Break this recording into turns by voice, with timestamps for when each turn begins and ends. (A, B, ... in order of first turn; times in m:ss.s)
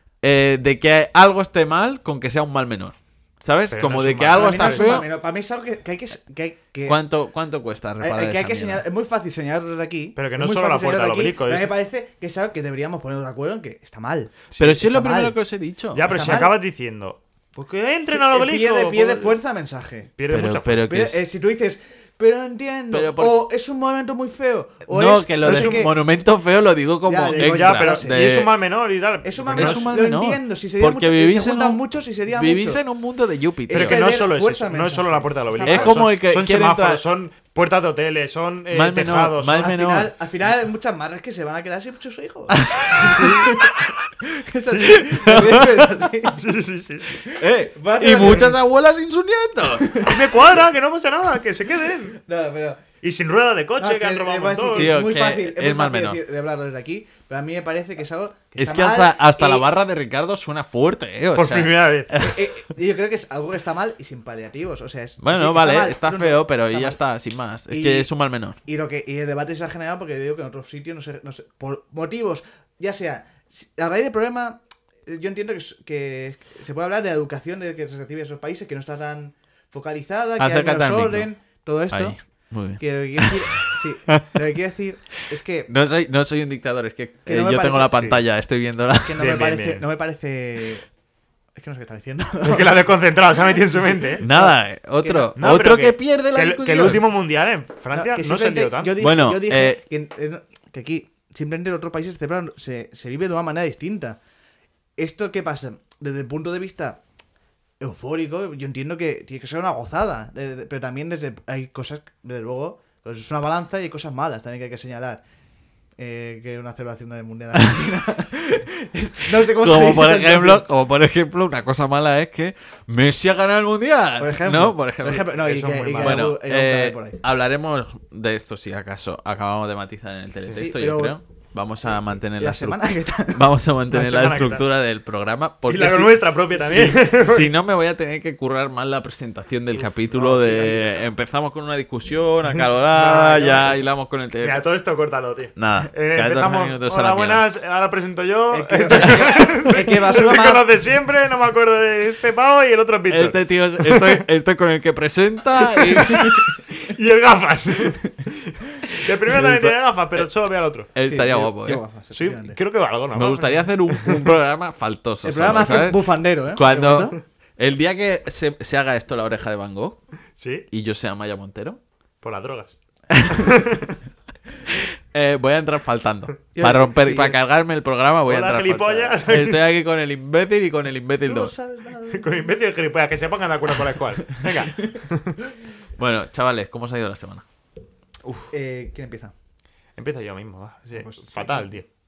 0:00.2-0:05.1 A
0:03.7-0:05.0 B
0:04.3-0:07.0 C
0:06.8-0:08.8 A
0:08.0-0:15.4 C
0:10.2-0:11.7 B
0:14.5-0:14.8 B
0:14.6-0:16.1 A
0:15.9-0:19.4 B
0:16.0-0:16.6 C
0:18.1-0:20.1 C
0:20.2-0:20.8 B
0:20.3-0:21.2 A
0:20.8-0:25.9 C
0:22.9-0:23.4 A
0:24.9-0:28.5 A
0:25.4-0:25.8 B
0:27.0-0:28.2 C
0:27.4-0:29.9 B
0:29.2-0:32.8 C
0:29.5-0:34.0 A
0:33.7-0:36.1 C
0:33.7-0:39.7 B
0:35.6-0:37.0 A
0:38.7-0:40.1 A
0:39.6-0:46.4 C
0:42.5-0:43.9 A
0:44.7-0:45.3 B
0:45.0-0:46.1 A
0:46.3-0:47.1 B
0:47.2-0:48.6 C
0:47.2-0:50.1 A
0:49.7-0:50.2 C
0:50.0-0:52.2 B
0:52.1-0:52.8 C
0:53.0-0:54.9 B
0:53.8-0:59.6 C
0:54.7-0:56.2 A
0:58.6-1:02.4 A
1:01.3-1:02.1 B
1:02.1-1:07.0 C
1:05.2-1:08.6 A
1:07.7-1:08.1 C
1:08.6-1:22.2 C
1:20.4-1:21.3 A
1:21.9-1:23.8 A
1:22.8-1:25.7 C
1:25.7-1:29.3 A
1:27.2-1:28.1 C
1:27.9-1:28.2 B
1:29.0-1:30.9 C
1:29.2-1:29.8 B
1:31.5-1:32.8 C
1:32.4-1:34.2 B
1:33.5-1:35.3 C
1:34.2-1:37.0 A
1:35.4-1:38.9 B
1:37.9-1:44.2 C
1:39.0-1:39.8 A
1:45.0-1:47.0 C
1:47.8-1:55.2 C
1:56.0-2:00.6 C
1:59.3-2:05.2 A
2:04.2-2:07.2 C
2:05.0-2:06.3 B
2:06.0-2:24.6 A
2:10.5-2:11.2 C
2:11.8-2:13.5 C
2:13.9-2:14.6 B
2:15.7-2:17.5 B
2:20.0-2:20.9 C
2:22.9-2:23.7 C
2:24.4-2:34.2 B
2:25.6-2:27.4 A
2:28.5-2:30.6 C
2:28.9-2:29.4 A
2:33.1-2:36.4 A
2:35.8-2:40.9 B
2:39.3-2:40.3 A
2:40.9-2:41.8 A
2:41.0-2:42.6 C
2:42.1-2:44.3 B
2:43.1-2:50.0 A
2:45.2-2:47.2 C
2:50.4-2:50.6 B
2:50.7-2:51.8 A
2:52.2-2:54.0 B
2:54.7-3:01.5 A
2:56.5-2:57.4 C
2:58.2-2:59.6 B
3:01.2-3:02.5 C
3:02.1-3:05.4 B
3:06.0-3:07.4 A
3:08.5-3:09.3 C
3:10.0-3:11.8 B
3:10.9-3:11.7 C